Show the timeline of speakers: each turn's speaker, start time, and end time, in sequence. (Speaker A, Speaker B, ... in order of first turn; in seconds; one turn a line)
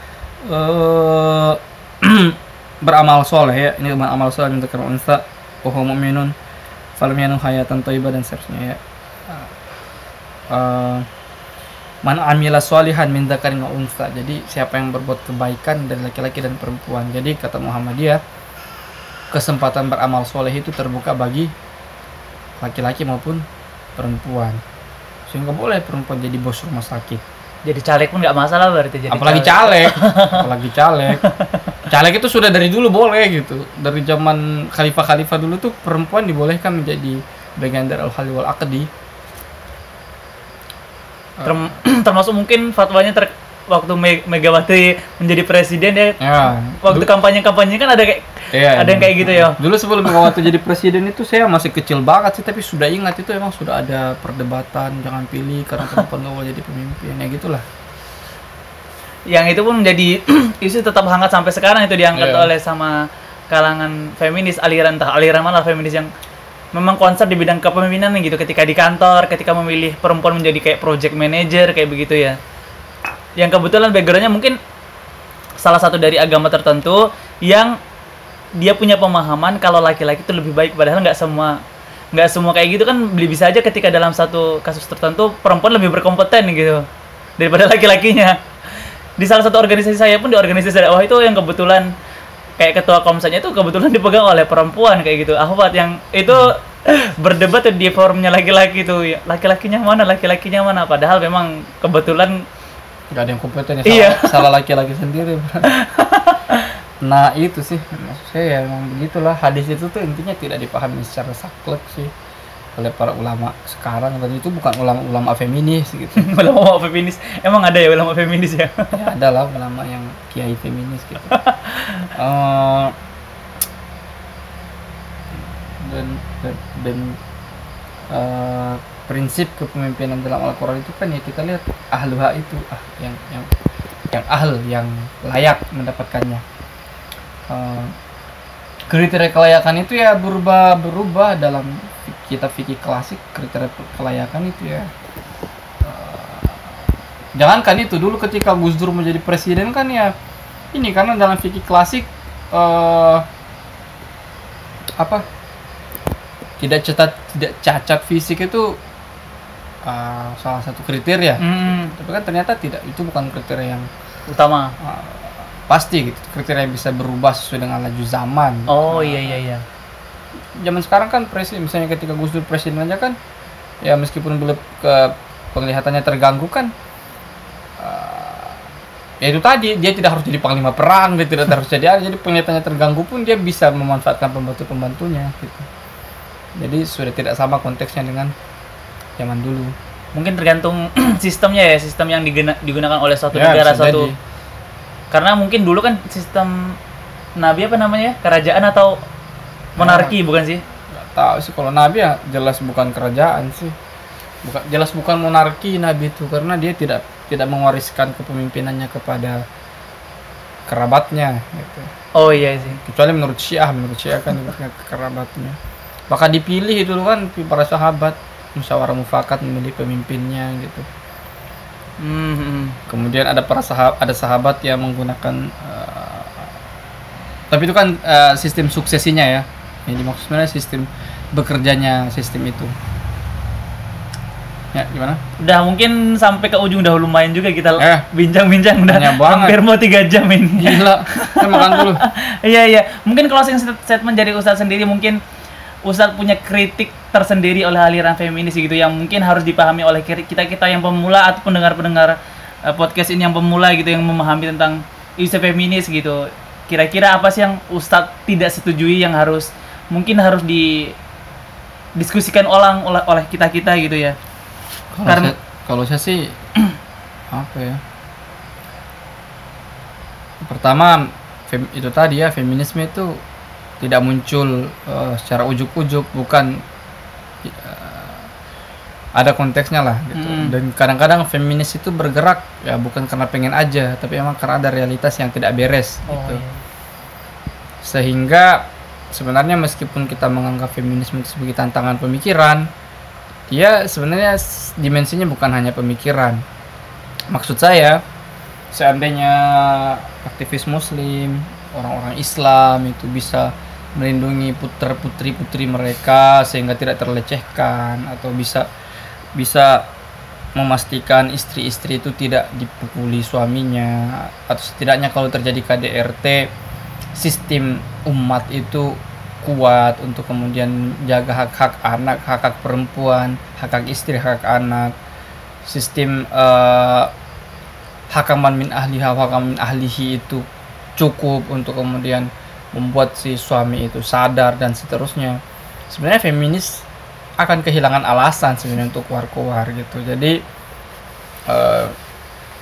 Speaker A: 0.4-6.3
Speaker A: 7.0-9.5
Speaker A: 10.5-11.1
Speaker A: 12.0-18.2
Speaker A: 19.3-21.5
Speaker A: 22.6-23.4
Speaker A: 24.0-24.6
Speaker A: 25.3-27.2
Speaker B: 27.6-30.4
Speaker A: 29.1-31.2
Speaker A: 31.9-38.9
Speaker A: 41.4-41.8
Speaker B: 41.4-50.4
Speaker A: 46.2-47.1
Speaker A: 48.5-57.6
Speaker B: 59.3-66.1
Speaker A: 62.1-62.5
Speaker B: 66.7-72.4
Speaker B: 73.4-74.6
Speaker B: 75.6-77.8
Speaker B: 78.6-81.6
Speaker B: 82.1-86.8
Speaker B: 87.4-88.4
Speaker B: 89.2-91.9
Speaker B: 92.6-102.4
Speaker A: 103.1-105.7
Speaker B: 103.8-104.5
Speaker B: 105.7-106.7
Speaker A: 107.0-112.1
Speaker A: 112.8-116.3
Speaker B: 116.2-118.9
Speaker A: 118.9-121.4
Speaker B: 121.3-122.0
Speaker A: 122.1-122.9
Speaker A: 125.3-127.2
Speaker A: 128.1-133.5
Speaker A: 134.1-136.4
Speaker A: 137.5-137.9
Speaker A: 138.9-144.9
Speaker A: 145.8-146.8
Speaker A: 147.3-150.1
Speaker A: 150.7-153.2
Speaker A: 155.0-155.2
Speaker A: 156.6-158.8
Speaker A: 159.8-163.9
Speaker B: 161.4-161.9
Speaker B: 164.3-164.7
Speaker A: 164.8-169.4
Speaker B: 168.7-169.6
Speaker A: 170.6-173.2
Speaker A: 173.8-176.7
Speaker A: 177.8-178.6
Speaker A: 179.2-185.7
Speaker A: 186.6-188.3
Speaker A: 189.2-189.7
Speaker B: 190.1-194.1
Speaker A: 193.3-194.2
Speaker B: 195.1-196.8
Speaker B: 197.4-199.0
Speaker A: 199.8-200.1
Speaker B: 199.8-200.6
Speaker A: 200.9-203.7
Speaker A: 204.4-209.4
Speaker A: 210.7-211.9
Speaker B: 212.1-212.8
Speaker A: 212.6-215.6
Speaker A: 216.1-220.8
Speaker B: 222.0-222.8
Speaker A: 222.9-226.5
Speaker A: 227.5-232.7
Speaker A: 234.7-235.2
Speaker B: 235.4-245.2
Speaker A: 237.8-238.1
Speaker A: 238.9-239.6
Speaker A: 240.6-242.0
Speaker B: 245.8-260.9
Speaker B: 261.9-264.1
Speaker A: 264.9-266.4
Speaker B: 265.1-265.3
Speaker A: 267.3-267.8
Speaker A: 270.4-273.2
Speaker A: 273.8-276.6
Speaker A: 277.4-278.2
Speaker A: 279.1-286.4
Speaker B: 280.1-280.5
Speaker B: 286.1-286.6
Speaker A: 287.8-292.7
Speaker A: 293.5-296.4
Speaker A: 297.3-298.0
Speaker A: 298.7-308.6
Speaker A: 309.3-309.9
Speaker A: 310.6-316.5
Speaker A: 317.2-324.9
Speaker A: 325.6-327.1
Speaker A: 328.1-330.4
Speaker A: 331.0-336.9
Speaker A: 337.4-340.4
Speaker A: 341.5-341.9